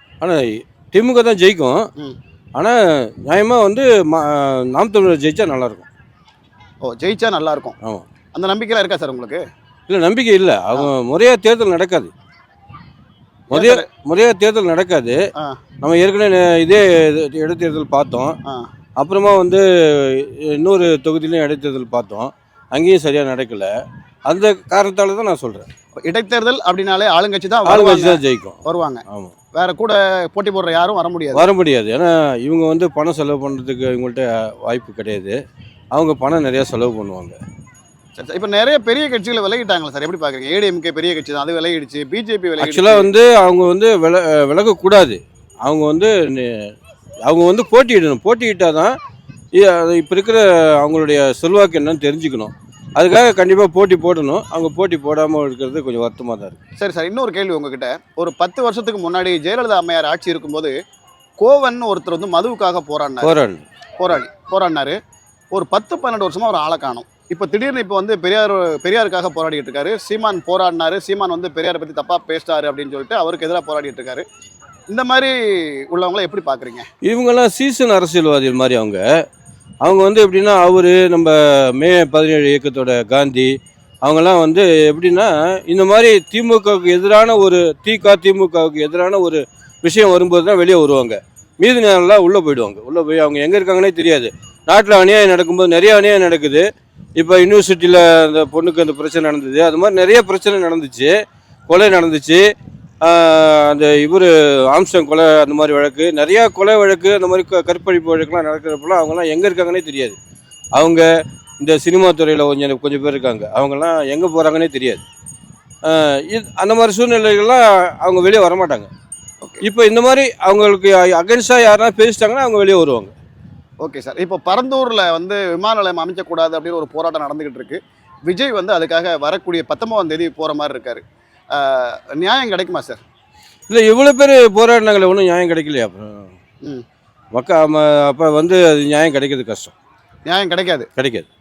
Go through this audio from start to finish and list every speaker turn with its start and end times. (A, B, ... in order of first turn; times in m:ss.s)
0:00.2-0:01.8 A
0:02.6-0:05.9 A
0:06.8-0:07.8 B
0:08.3-0:09.4 B
0:09.9-0:12.1 A
0:13.5-0:15.2 A
0:13.5-0:13.9 B
0:15.8-0:18.4 A
0:19.0-0:23.7 A
0:24.3-0:25.7 A
0:26.0-0:29.0 B
0:27.6-0:28.6 A
0:29.1-0:29.3 A
0:29.5-0:31.5 B
0:31.3-0:35.4 A
0:35.9-0:37.4 A
0:38.2-0:43.1 B
0:42.6-0:46.7 A
0:47.2-0:48.9 A
0:49.6-0:56.6 A
0:56.8-1:00.7 B
1:01.4-1:03.4 B
1:03.2-1:03.6 A
1:04.0-1:05.0 B
1:05.5-1:14.2 B
1:14.9-1:15.4 B
1:15.9-1:16.9 B
1:17.0-1:19.0 A
1:19.8-1:23.5 A
1:24.0-1:36.6 A
1:37.2-1:41.1 A
1:41.7-1:42.4 A
1:43.0-1:50.2 A
1:50.8-1:51.1 A
1:51.6-1:55.0 A
1:55.8-1:58.9 A
1:59.6-2:03.1 A
2:03.8-2:13.0 B
2:13.7-2:16.3 A
2:17.4-2:19.7 A
2:20.3-2:20.9 B
2:21.0-2:21.3 A